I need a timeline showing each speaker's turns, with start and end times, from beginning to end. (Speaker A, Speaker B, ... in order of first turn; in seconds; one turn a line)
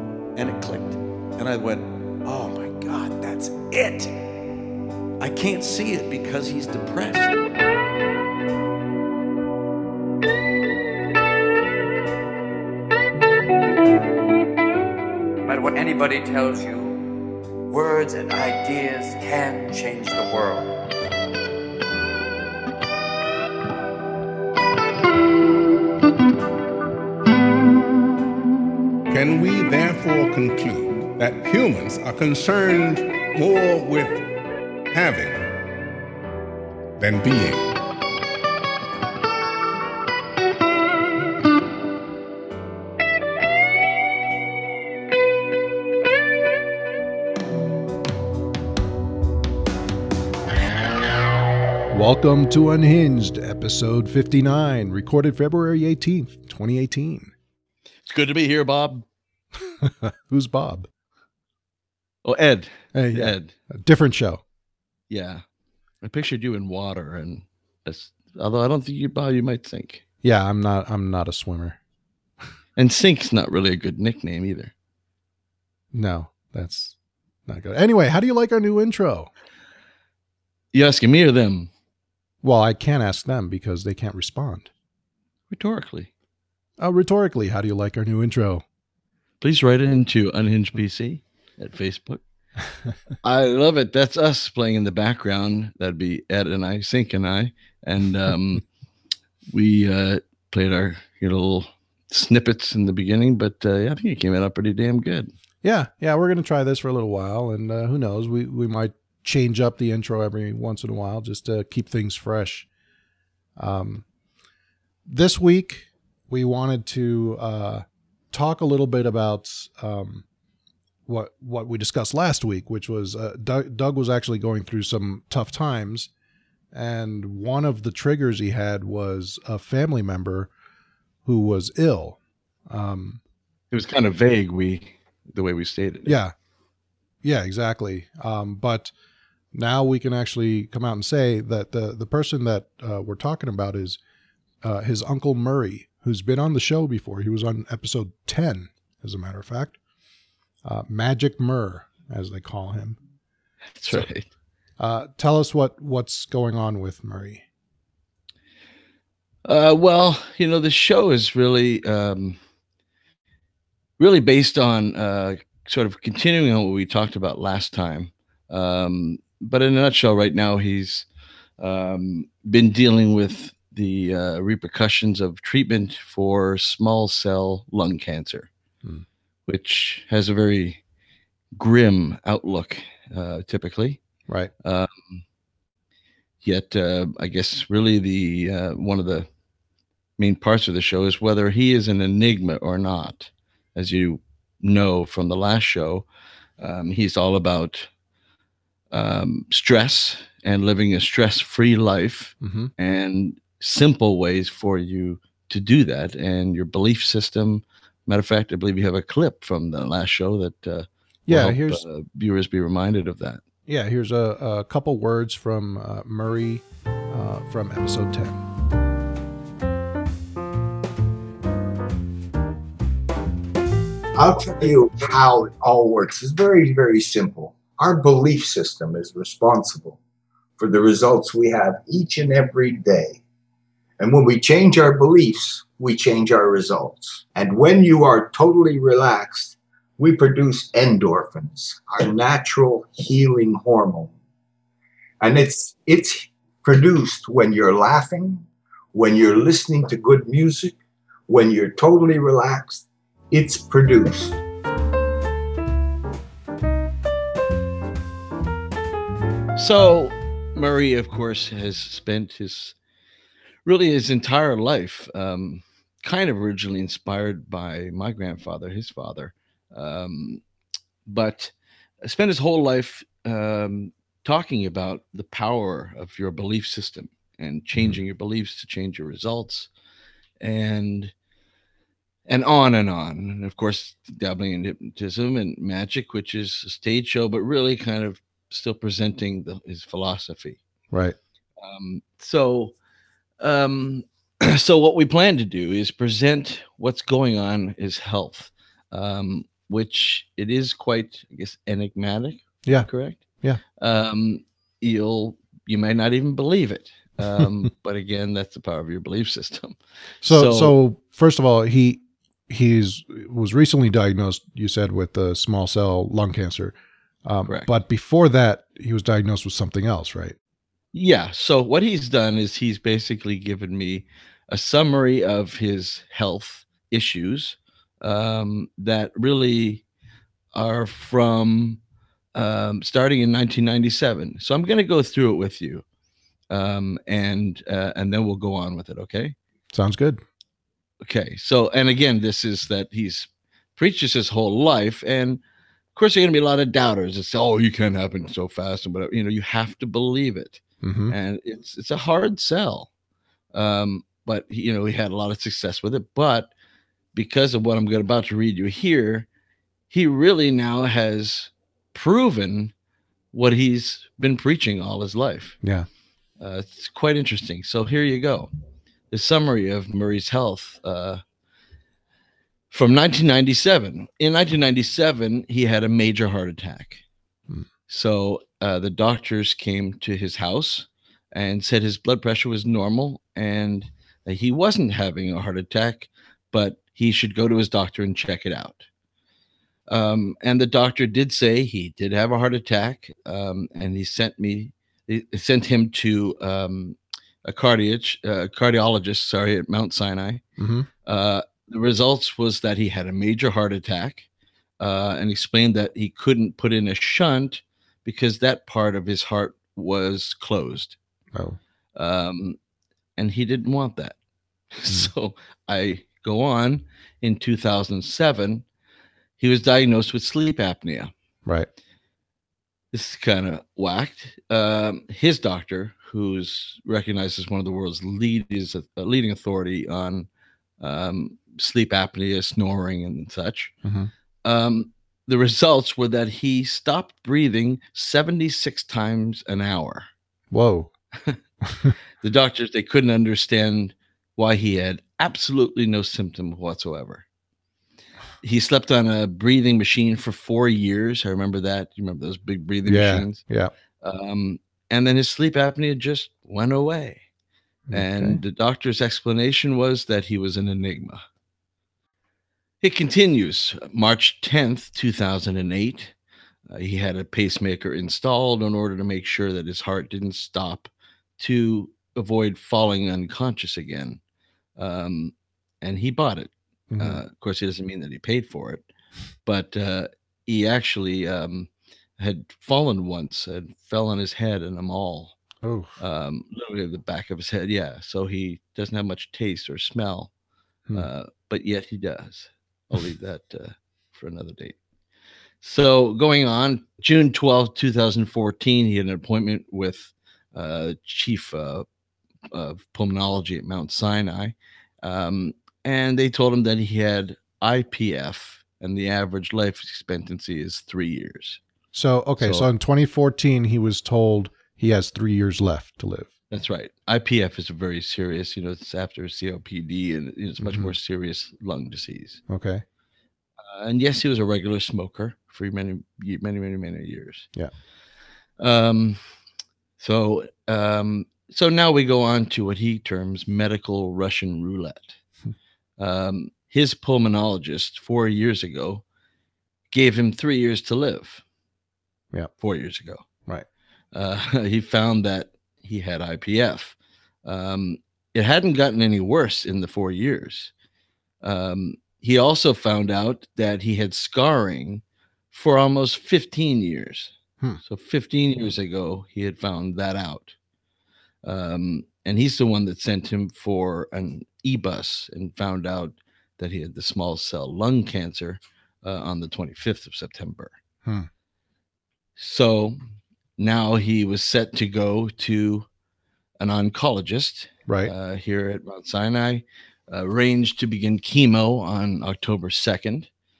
Speaker A: 0.3-4.1
Speaker A: 5.2-7.5
Speaker B: 15.4-16.9
Speaker B: 17.7-20.7
Speaker C: 29.1-34.3
Speaker C: 34.9-35.4
Speaker C: 37.0-37.7
Speaker D: 51.9-57.3
Speaker E: 58.1-59.0
Speaker D: 59.8-60.9
Speaker E: 62.2-63.5
Speaker D: 62.9-64.4
Speaker E: 65.1-65.4
Speaker E: 66.0-70.0
Speaker D: 70.2-71.8
Speaker E: 72.8-74.7
Speaker D: 75.9-76.9
Speaker D: 77.5-79.3
Speaker E: 80.7-81.7
Speaker D: 82.4-84.7
Speaker E: 85.5-86.1
Speaker D: 86.8-88.6
Speaker E: 89.4-92.2
Speaker E: 93.2-98.6
Speaker E: 99.5-105.3
Speaker D: 105.6-112.7
Speaker D: 113.6-114.0
Speaker D: 115.1-120.2
Speaker D: 121.1-126.1
Speaker D: 126.7-130.5
Speaker D: 131.2-133.2
Speaker E: 133.7-136.2
Speaker D: 136.1-136.3
Speaker D: 137.2-138.9
Speaker D: 139.5-144.0
Speaker D: 144.6-149.8
Speaker D: 150.6-153.0
Speaker E: 153.8-154.3
Speaker D: 154.8-157.4
Speaker E: 159.4-162.4
Speaker E: 164.0-171.1
Speaker E: 171.6-178.5
Speaker E: 179.5-180.8
Speaker E: 181.6-184.0
Speaker E: 184.6-185.2
Speaker E: 186.4-189.3
Speaker E: 190.2-196.1
Speaker E: 196.6-197.9
Speaker E: 198.9-213.4
Speaker D: 202.4-202.7
Speaker D: 211.3-211.8
Speaker D: 213.7-218.4
Speaker F: 224.2-230.0
Speaker F: 230.6-233.2
Speaker F: 234.0-244.1
Speaker F: 245.2-250.8
Speaker F: 251.3-254.4
Speaker E: 259.6-262.8
Speaker E: 263.6-270.4
Speaker E: 271.1-271.5
Speaker E: 272.0-279.7
Speaker E: 280.4-281.1
Speaker E: 282.3-290.6
Speaker D: 290.9-291.1
Speaker E: 291.6-292.7
Speaker E: 293.4-303.2
Speaker E: 303.8-310.8
Speaker D: 310.2-320.4
Speaker E: 320.9-329.8
Speaker E: 330.5-331.8
Speaker E: 332.3-335.8
Speaker E: 336.5-339.3
Speaker D: 339.7-340.2
Speaker E: 341.0-345.4
Speaker E: 345.9-352.9
Speaker D: 350.8-351.1
Speaker E: 353.5-356.5
Speaker E: 357.1-359.3
Speaker E: 359.9-362.7
Speaker E: 363.3-365.6
Speaker E: 366.4-368.5
Speaker E: 369.1-371.2
Speaker E: 372.7-377.0
Speaker E: 377.9-388.9
Speaker E: 389.9-400.4
Speaker D: 400.6-400.9
Speaker E: 401.1-404.3
Speaker E: 404.8-411.0
Speaker E: 411.9-412.6
Speaker E: 413.2-414.1
Speaker E: 414.7-418.6
Speaker E: 419.4-421.1
Speaker E: 422.9-430.3
Speaker E: 430.8-433.7
Speaker D: 433.8-434.1
Speaker E: 434.4-440.1
Speaker D: 440.5-440.9
Speaker E: 442.2-447.2
Speaker E: 448.4-453.4
Speaker D: 452.8-453.7
Speaker E: 454.0-457.2
Speaker D: 457.9-458.4
Speaker E: 457.9-461.2
Speaker E: 462.8-466.1
Speaker E: 466.7-474.2
Speaker E: 474.8-478.9
Speaker D: 476.9-477.2
Speaker E: 479.4-485.4
Speaker D: 485.6-485.9
Speaker E: 486.0-490.3
Speaker E: 490.9-494.8
Speaker E: 495.6-501.9
Speaker E: 502.5-511.6
Speaker D: 511.9-516.3
Speaker E: 512.4-512.7
Speaker E: 516.5-522.4
Speaker D: 520.6-520.9
Speaker D: 522.5-522.8
Speaker E: 523.7-527.5
Speaker E: 528.6-529.2
Speaker E: 530.0-535.2
Speaker E: 536.0-539.0
Speaker E: 539.9-541.4
Speaker E: 542.6-543.2
Speaker E: 544.1-550.7
Speaker E: 551.4-557.3
Speaker E: 557.8-560.5
Speaker E: 561.4-570.7
Speaker E: 572.4-573.0
Speaker E: 573.6-575.9
Speaker E: 576.6-583.3
Speaker D: 577.9-578.1